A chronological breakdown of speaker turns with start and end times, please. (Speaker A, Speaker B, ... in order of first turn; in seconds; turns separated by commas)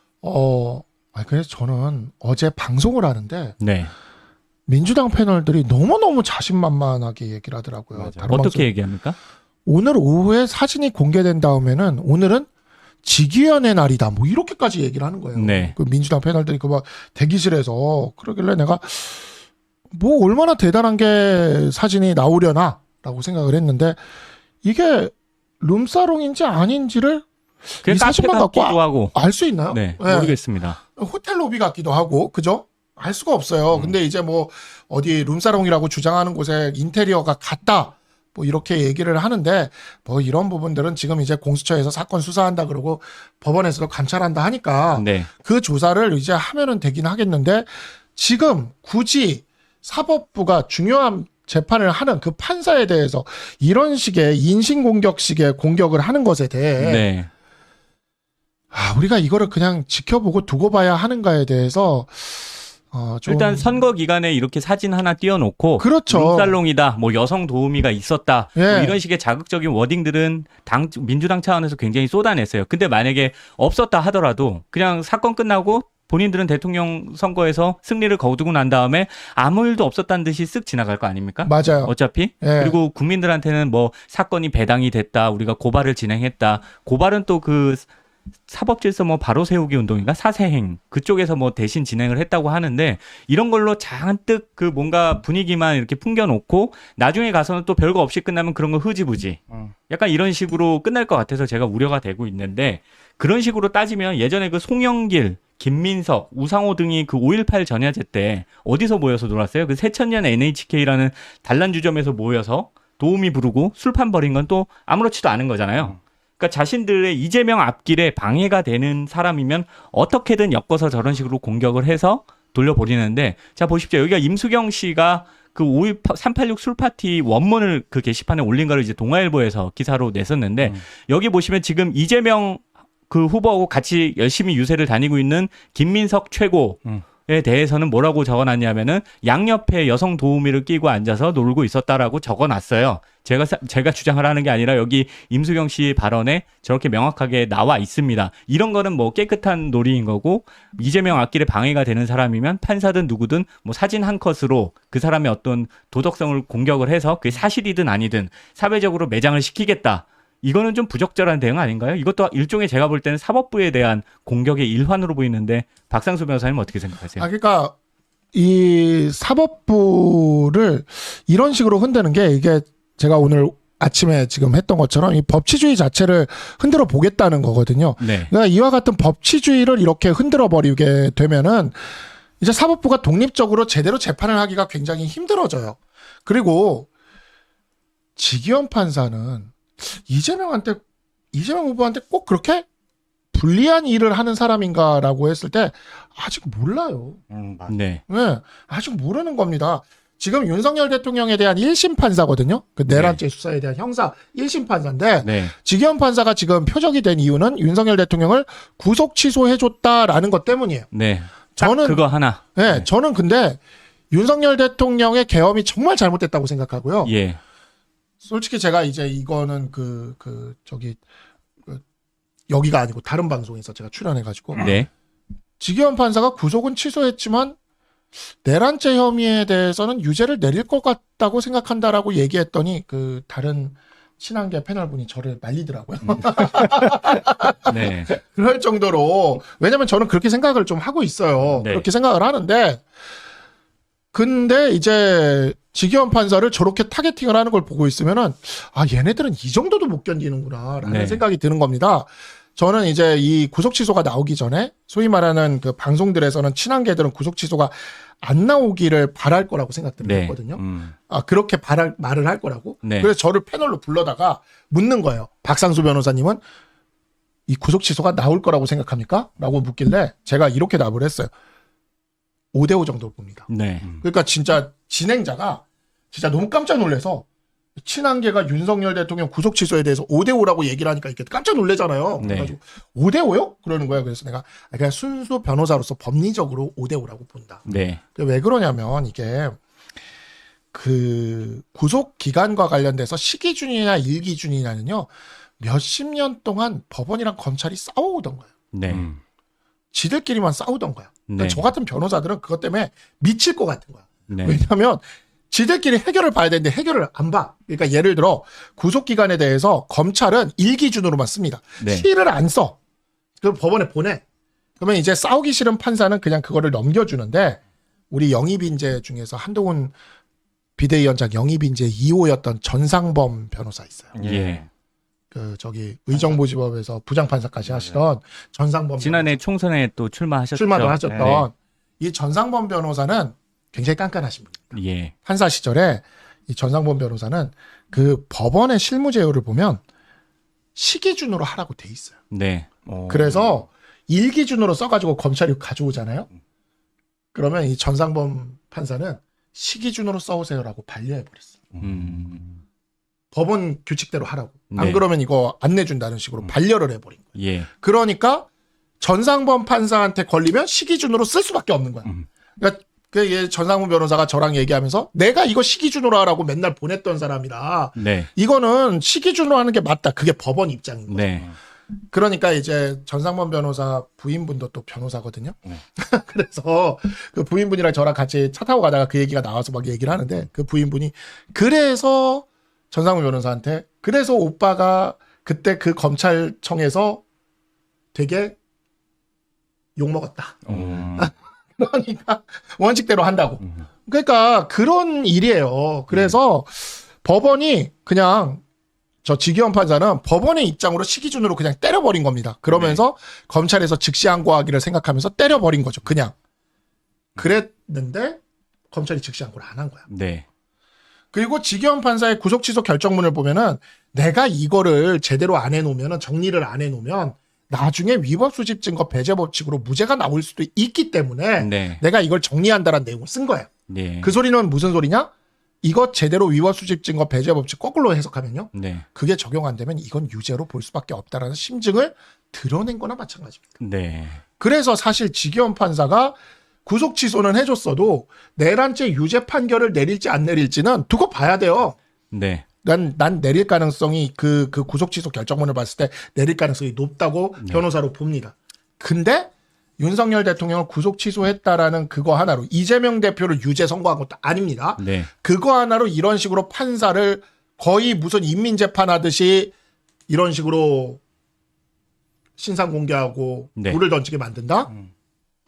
Speaker A: 0.2-3.6, Speaker B: 3.6-3.9, Speaker A: 4.7-8.7, Speaker C: 7.9-8.3, Speaker B: 8.3-9.2, Speaker A: 9.7-12.5, Speaker A: 13.0-19.3, Speaker B: 15.3-15.8, Speaker A: 19.9-24.0, Speaker A: 24.6-27.2, Speaker A: 27.8-30.4, Speaker B: 27.8-29.2, Speaker B: 29.7-30.8, Speaker A: 30.9-57.1, Speaker C: 33.7-34.0, Speaker B: 44.9-45.3, Speaker B: 56.8-57.3, Speaker A: 58.7-63.7, Speaker B: 63.2-87.9, Speaker A: 65.8-66.6, Speaker A: 68.6-69.0, Speaker A: 81.4-82.8, Speaker B: 88.5-167.3, Speaker C: 99.5-99.7, Speaker A: 167.2-167.7, Speaker A: 168.3-186.9, Speaker B: 178.0-178.3, Speaker A: 188.2-190.8, Speaker A: 191.3-192.7, Speaker A: 193.3-197.2, Speaker C: 197.3-197.8, Speaker B: 197.7-198.0, Speaker A: 198.1-210.9, Speaker B: 202.9-203.2, Speaker B: 205.2-205.5, Speaker B: 210.9-212.9, Speaker A: 211.6-213.6, Speaker A: 214.1-217.1, Speaker B: 217.0-217.4, Speaker A: 218.2-221.0, Speaker A: 222.5-224.8, Speaker B: 224.6-224.9, Speaker A: 225.6-227.6, Speaker A: 228.3-242.8, Speaker B: 237.7-238.1, Speaker B: 241.6-241.9, Speaker A: 244.1-266.4, Speaker B: 250.8-251.2, Speaker B: 260.0-260.4, Speaker C: 260.6-260.9, Speaker B: 262.8-263.1, Speaker A: 267.5-271.3, Speaker A: 272.5-273.5, Speaker B: 273.5-273.9, Speaker A: 274.0-277.3, Speaker A: 277.8-287.6, Speaker B: 282.2-282.6, Speaker B: 287.7-288.0, Speaker A: 288.2-289.6, Speaker A: 290.7-298.5, Speaker B: 298.7-299.1, Speaker C: 298.9-299.2, Speaker A: 299.9-312.8, Speaker B: 301.3-301.7, Speaker B: 304.3-304.6, Speaker B: 311.8-312.1, Speaker A: 313.4-314.2, Speaker A: 314.8-317.6, Speaker A: 318.1-319.9, Speaker A: 320.8-324.1, Speaker C: 324.1-324.7, Speaker B: 324.2-324.6, Speaker A: 325.3-329.4, Speaker C: 326.1-326.4, Speaker C: 327.6-328.0, Speaker B: 329.0-331.5, Speaker A: 330.6-334.7, Speaker C: 331.0-331.4, Speaker B: 334.7-335.1, Speaker A: 335.3-339.8, Speaker A: 340.8-342.2, Speaker B: 342.3-342.7, Speaker C: 342.9-343.6, Speaker A: 343.1-346.3, Speaker A: 347.3-351.8, Speaker C: 351.7-352.5, Speaker B: 351.8-352.4, Speaker A: 353.3-358.5, Speaker B: 354.7-355.0, Speaker B: 357.4-357.7, Speaker A: 359.0-371.5, Speaker B: 368.0-368.3, Speaker B: 371.1-371.5, Speaker A: 372.1-387.2, Speaker A: 388.1-388.6, Speaker A: 390.0-398.6, Speaker C: 390.7-391.3, Speaker C: 396.1-396.4, Speaker A: 399.2-406.3, Speaker A: 407.4-410.1, Speaker B: 410.1-410.4, Speaker A: 411.3-423.7, Speaker B: 421.6-422.0, Speaker B: 423.9-424.3, Speaker A: 424.2-425.3, Speaker A: 425.8-433.6, Speaker B: 428.7-429.1, Speaker B: 433.8-434.4, Speaker A: 434.6-442.0, Speaker B: 442.3-442.6, Speaker A: 442.8-459.7, Speaker B: 447.6-447.9, Speaker B: 455.0-455.3, Speaker A: 460.3-461.2, Speaker A: 462.6-464.9